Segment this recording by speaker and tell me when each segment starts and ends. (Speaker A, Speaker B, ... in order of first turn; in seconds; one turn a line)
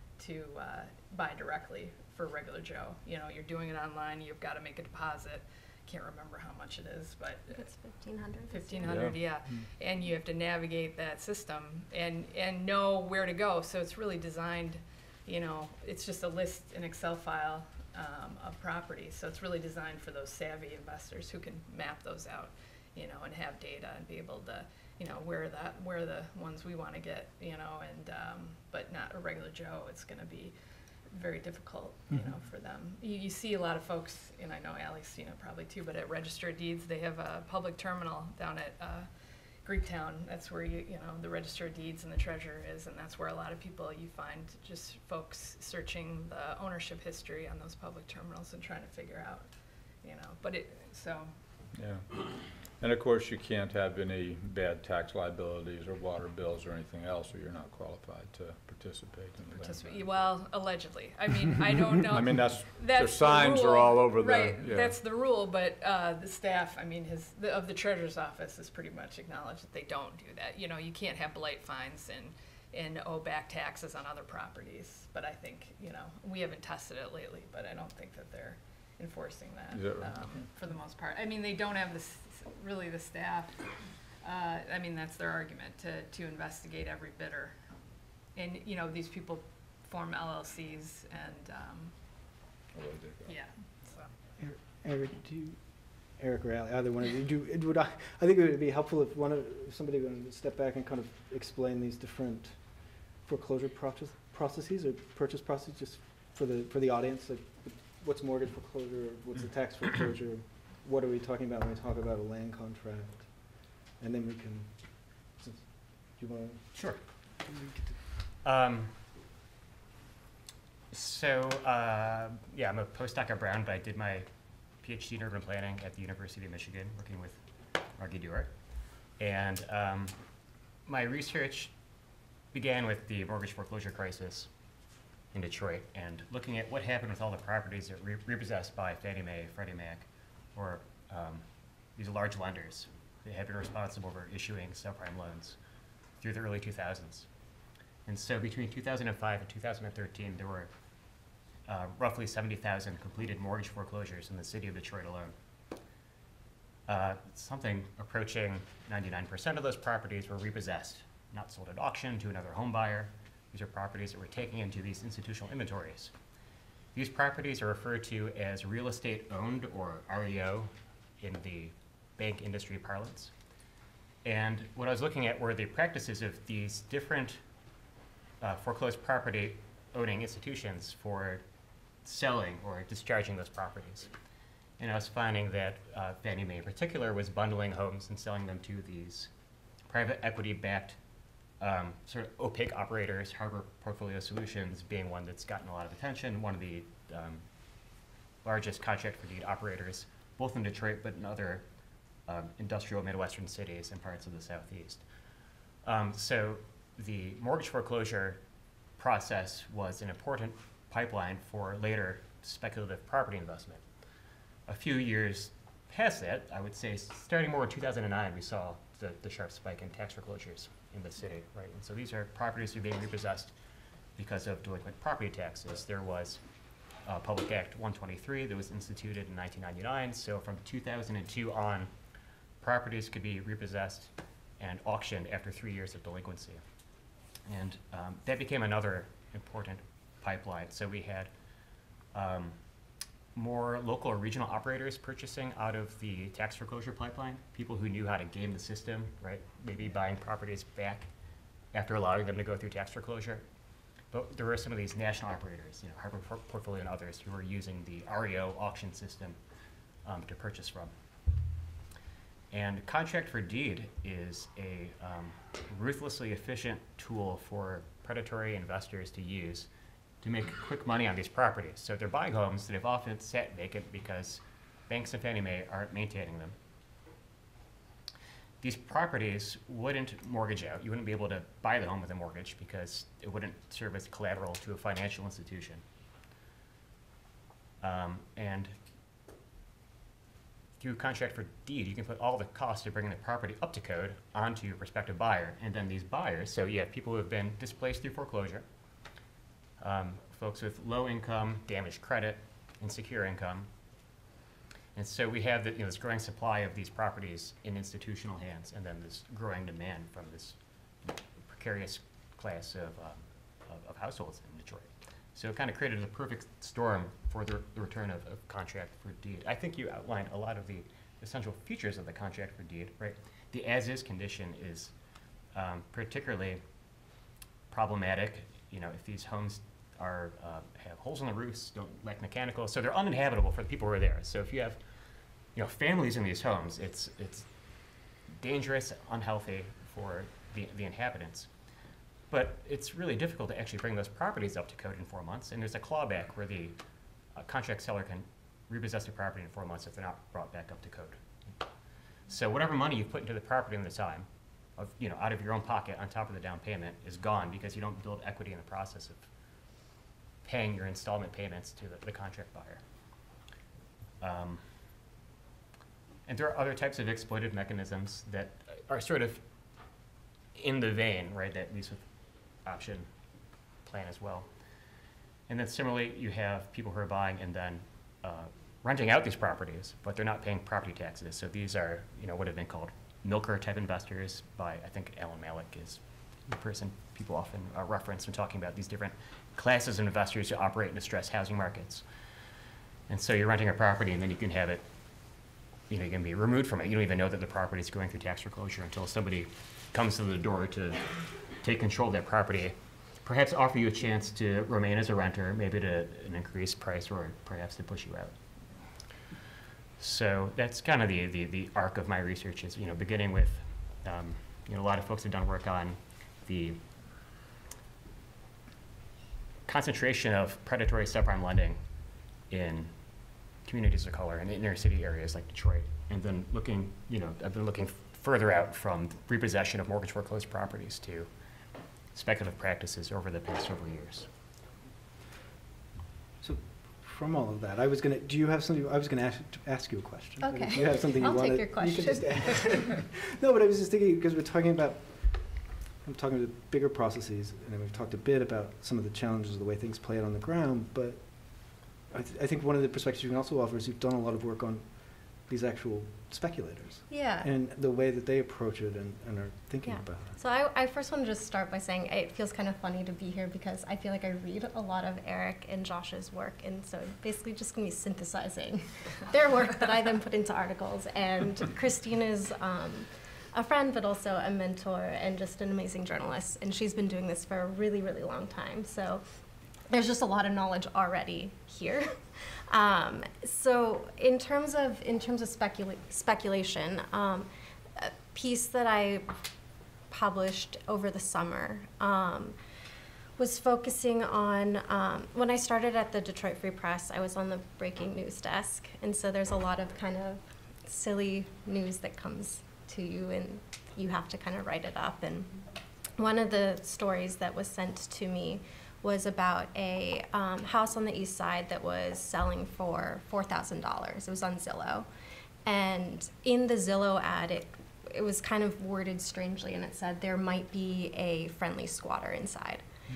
Speaker A: 0.2-7.6
Speaker B: 7.5-9.1
Speaker A: 8.5-30.5
Speaker C: 8.8-9.2
Speaker A: 31.1-39.1
Speaker A: 39.6-49.5
Speaker A: 50.0-51.3
Speaker C: 51.8-52.0
Speaker C: 52.8-60.1
Speaker A: 59.5-83.5
Speaker C: 62.0-64.9
Speaker C: 79.7-80.2
Speaker A: 84.2-87.5
Speaker A: 88.3-91.9
Speaker C: 92.7-93.3
Speaker A: 93.2-94.1
Speaker D: 94.4-95.6
Speaker D: 96.2-102.6
Speaker D: 103.2-113.3
Speaker D: 114.0-114.8
Speaker D: 115.4-115.7
Speaker D: 116.2-116.7
Speaker E: 116.7-117.0
Speaker D: 117.5-118.0
Speaker E: 118.4-118.9
Speaker E: 120.9-124.3
Speaker E: 124.8-127.4
Speaker E: 128.0-128.5
Speaker E: 129.2-130.1
Speaker E: 130.8-131.7
Speaker E: 132.5-134.5
Speaker E: 135.3-141.4
Speaker E: 141.9-145.6
Speaker E: 146.2-147.3
Speaker E: 148.1-150.7
Speaker E: 151.7-155.3
Speaker E: 156.9-166.1
Speaker E: 166.9-170.7
Speaker E: 171.2-173.3
Speaker E: 174.2-177.4
Speaker E: 178.4-181.4
Speaker E: 182.0-184.1
Speaker E: 184.8-189.3
Speaker E: 189.9-191.0
Speaker E: 191.6-197.4
Speaker E: 198.4-201.6
Speaker E: 202.3-205.0
Speaker E: 205.8-208.4
Speaker E: 209.0-213.8
Speaker E: 214.7-223.5
Speaker E: 224.2-226.4
Speaker E: 227.1-231.9
Speaker E: 232.6-236.6
Speaker E: 237.5-241.3
Speaker E: 242.1-242.6
Speaker E: 243.3-251.1
Speaker E: 251.7-253.4
Speaker E: 254.1-259.4
Speaker E: 260.0-260.9
Speaker E: 262.5-269.7
Speaker E: 270.2-276.6
Speaker E: 278.6-285.8
Speaker E: 287.8-288.7
Speaker E: 290.8-298.6
Speaker E: 299.8-303.7
Speaker E: 304.9-324.9
Speaker E: 325.5-326.6
Speaker E: 327.7-334.8
Speaker E: 335.5-337.5
Speaker E: 338.4-341.5
Speaker E: 342.3-346.8
Speaker E: 347.3-351.2
Speaker E: 352.3-359.3
Speaker E: 360.4-362.8
Speaker E: 364.2-364.6
Speaker E: 366.3-369.4
Speaker E: 370.5-372.0
Speaker E: 372.6-373.1
Speaker E: 373.8-374.5
Speaker E: 375.5-392.0
Speaker E: 393.1-394.9
Speaker E: 395.9-401.1
Speaker E: 401.6-408.4
Speaker E: 410.0-416.8
Speaker E: 419.7-421.8
Speaker E: 422.5-422.9
Speaker E: 423.6-431.3
Speaker E: 432.1-434.3
Speaker D: 436.4-445.5
Speaker B: 440.4-442.7
Speaker D: 446.0-454.9
Speaker D: 455.4-460.4
Speaker B: 457.1-457.5
Speaker B: 459.8-479.2
Speaker B: 479.9-489.3
Speaker B: 490.1-492.6
Speaker B: 493.4-505.5
Speaker B: 506.2-515.1
Speaker B: 515.6-522.8